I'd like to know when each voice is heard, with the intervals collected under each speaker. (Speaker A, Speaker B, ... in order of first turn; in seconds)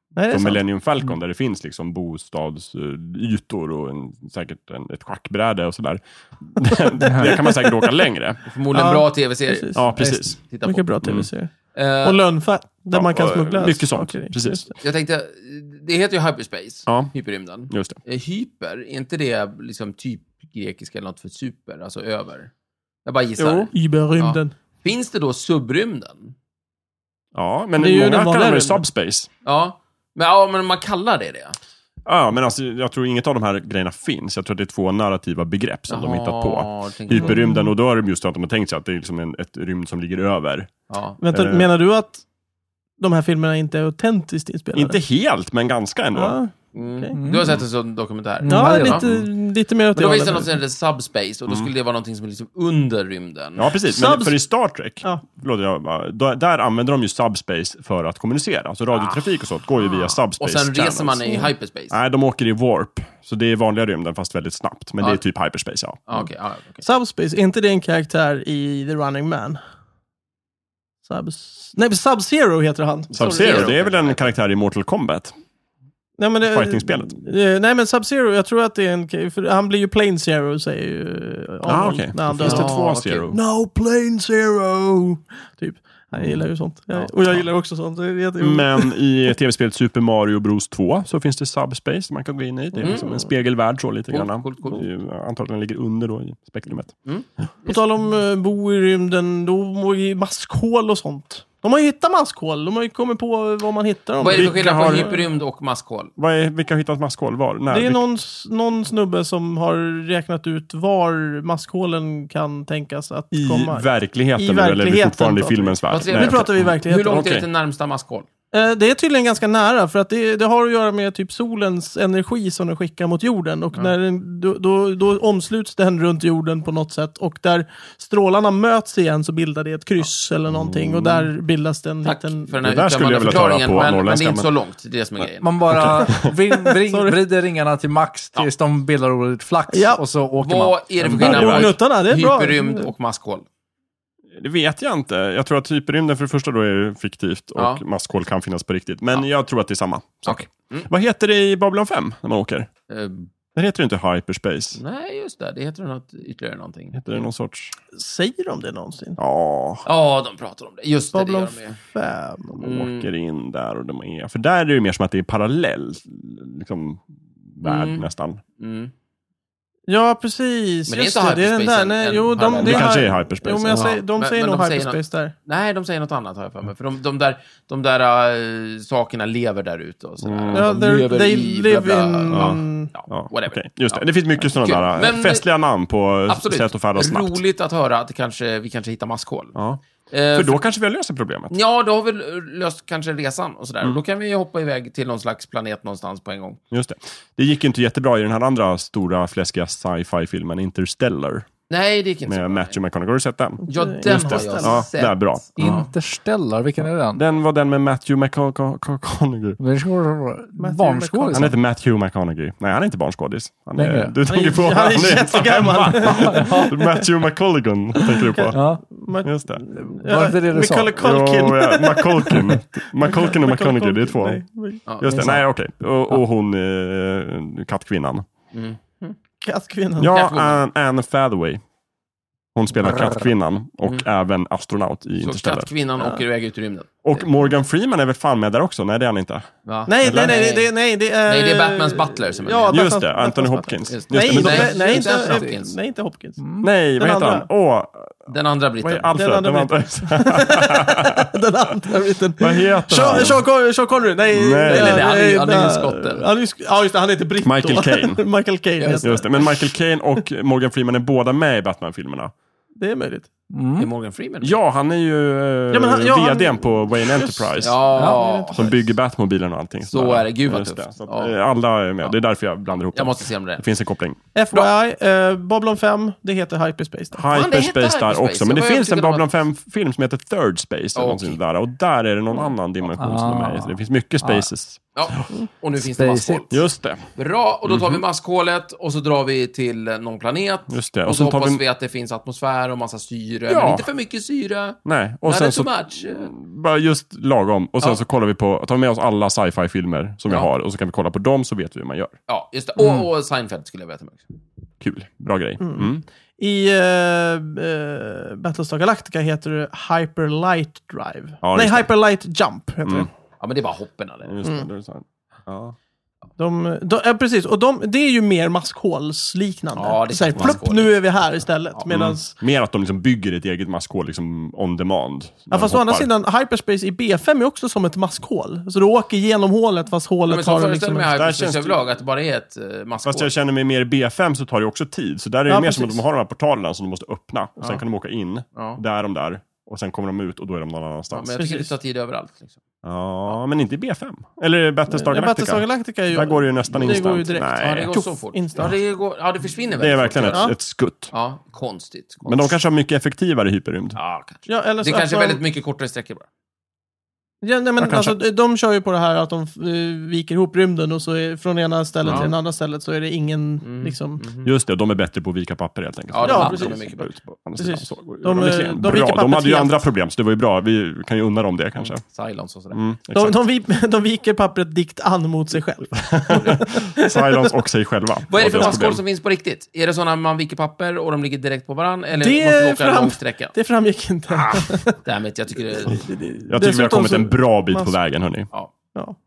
Speaker A: 0.2-0.6, 8.7-14.7, 23.7-24.5, 27.8-28.8, 41.2-42.2, 43.0-45.0, 46.1-47.1, 48.5-50.5, 53.9-54.4, 66.8-69.6, 71.1-73.8, 76.2-89.1, 97.7-105.3, 107.7-117.2, 118.5-132.5, 136.2-137.2, 139.7-140.0, 141.1-142.9, 157.9-159.2, 161.1-162.6, 169.9-175.3, 180.5-182.9, 203.6-204.8, 210.6-211.5, 214.2-217.0, 218.1-224.8, 229.4-230.1, 239.9-247.5, 249.1-259.5, 262.8-263.3, 265.7-268.3, 274.4-277.2, 305.6-313.1, 316.4-322.4, 325.5-331.1, 335.5-336.0, 344.9-348.8, 354.5-355.4, 357.4-364.2, 366.2-366.8, 367.6-369.9, 373.1-377.5, 382.2-385.0, 385.8-388.0
Speaker B: 0.3-8.4, 9.8-10.4, 11.0-11.3, 12.9-14.7, 16.9-17.1, 17.7-18.0, 23.4-23.7, 27.3-29.3, 32.0-40.7, 41.3-41.7, 44.7-46.4, 53.6-66.0, 73.1-75.3, 76.5-77.1, 81.7-83.4, 86.2-86.5, 88.4-97.0, 104.3-105.2, 106.2-108.0, 113.3-117.5, 130.5-131.3, 132.6-134.5, 135.7-136.3, 141.0-141.8, 144.3-152.7, 153.6-154.8, 156.9-157.7, 159.2-159.9, 162.6-168.4, 172.6-174.0, 180.2-180.7, 182.3-187.4, 189.6-189.8, 190.3-191.5, 196.7-201.5, 202.3-205.8, 206.8-209.6, 211.3-218.6, 219.2-219.6, 221.0-224.4, 225.0-228.3, 230.0-231.6, 232.6-235.7, 237.0-239.5, 240.0-240.4, 242.7-244.8, 246.6-248.3, 248.8-251.3, 252.4-253.4, 254.3-255.1, 257.4-258.2, 259.0-262.3, 264.4-274.2, 277.1-285.3, 286.5-287.0, 287.7-288.0, 290.7-291.6, 293.5-293.9, 294.9-302.1, 304.8-306.1, 311.4-311.9, 314.2-315.8, 321.9-326.1, 331.1-331.8, 333.1-341.7, 342.8-347.9, 349.8-351.1, 352.3-354.0, 357.8-358.2, 362.0-362.3, 364.4-372.0, 372.7-373.4, 376.0-379.0, 386.5-388.5
Speaker C: 7.0-7.3, 47.1-47.6, 48.4-49.1, 135.4-140.8, 141.4-141.6, 205.6-207.2, 209.6-211.6, 213.8-214.2, 216.0-216.8, 218.5-218.8, 219.8-220.9, 225.0-225.5, 244.5-245.5, 246.4-246.7, 263.5-263.9, 267.9-268.7, 283.0-284.5, 285.8-286.4
Speaker D: 8.5-10.9, 11.7-12.2, 14.8-22.5, 23.1-26.4, 29.4-31.6, 35.9-37.5, 40.9-41.2, 46.7-49.0, 49.9-53.7, 58.9-59.2, 59.8-62.0, 66.1-66.8, 73.1-74.3, 82.4-83.3, 92.8-93.1, 94.1-94.9, 97.1-97.8, 104.2-106.1, 115.9-118.3, 132.0-135.9, 140.4-143.4, 147.6-147.8, 150.3-150.9, 152.9-153.3, 154.8-157.0, 159.9-161.8, 162.6-163.1, 167.6-168.1, 168.6-168.9, 170.9-173.0, 173.7-185.4, 186.3-190.6, 191.5-196.6, 201.7-202.8, 203.7-205.9, 224.9-225.3, 228.5-229.2, 230.1-230.6, 235.2-237.3, 239.7-240.7, 241.3-242.9, 243.9-245.8, 248.3-249.1, 254.7-256.2, 258.8-259.1, 263.8-264.6, 267.6-268.8, 269.9-271.4, 272.9-273.7, 277.3-279.2, 280.9-281.4, 284.9-286.6, 287.2-296.3, 302.3-304.4, 313.4-314.4, 319.8-321.0, 321.7-322.2, 330.3-333.3, 338.6-338.8, 341.1-342.6, 347.6-350.5, 351.1-352.6, 354.0-356.3, 362.1-362.3, 363.6-364.5, 366.1-367.1, 372.0-372.8, 378.3-383.6, 384.3-386.1